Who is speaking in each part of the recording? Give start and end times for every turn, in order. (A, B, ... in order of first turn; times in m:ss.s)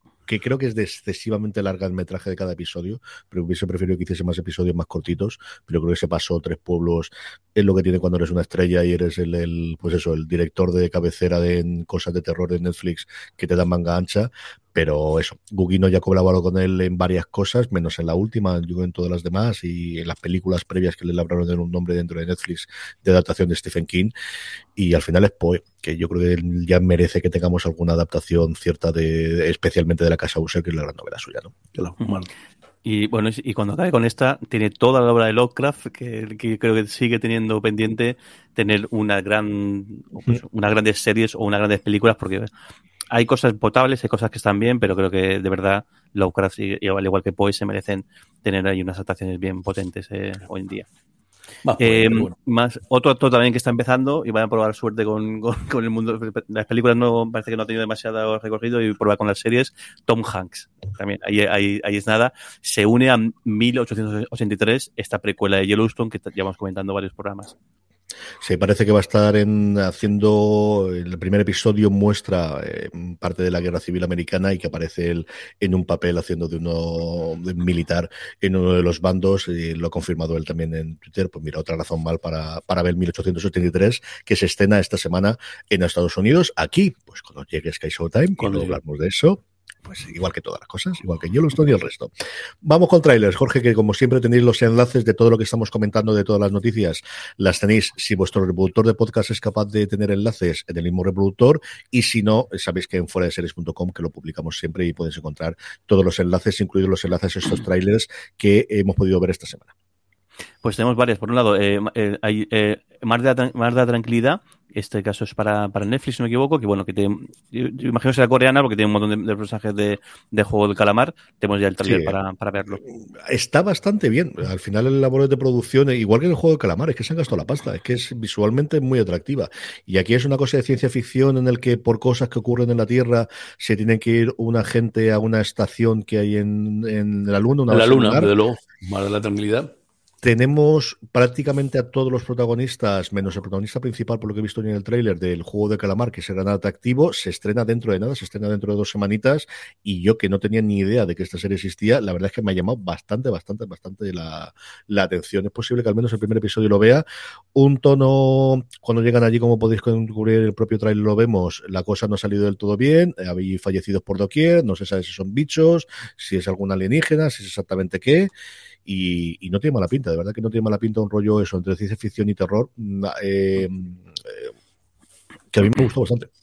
0:00.3-0:24.1 A
0:24.8-0:31.5 A
0:31.8-0:32.3 B
0:32.8-0:42.5 C
0:43.1-0:50.8 C
0:51.6-0:52.3 B
0:51.8-1:07.5 C
1:08.4-1:32.1 A
1:28.4-1:28.8 B
1:32.6-1:49.7 A
1:50.6-2:02.8 C
2:01.8-2:02.2 A
2:02.8-2:18.3 A
2:17.7-2:19.7 B
2:20.2-2:48.3 A
2:48.8-2:54.5 A
2:55.5-2:56.3 A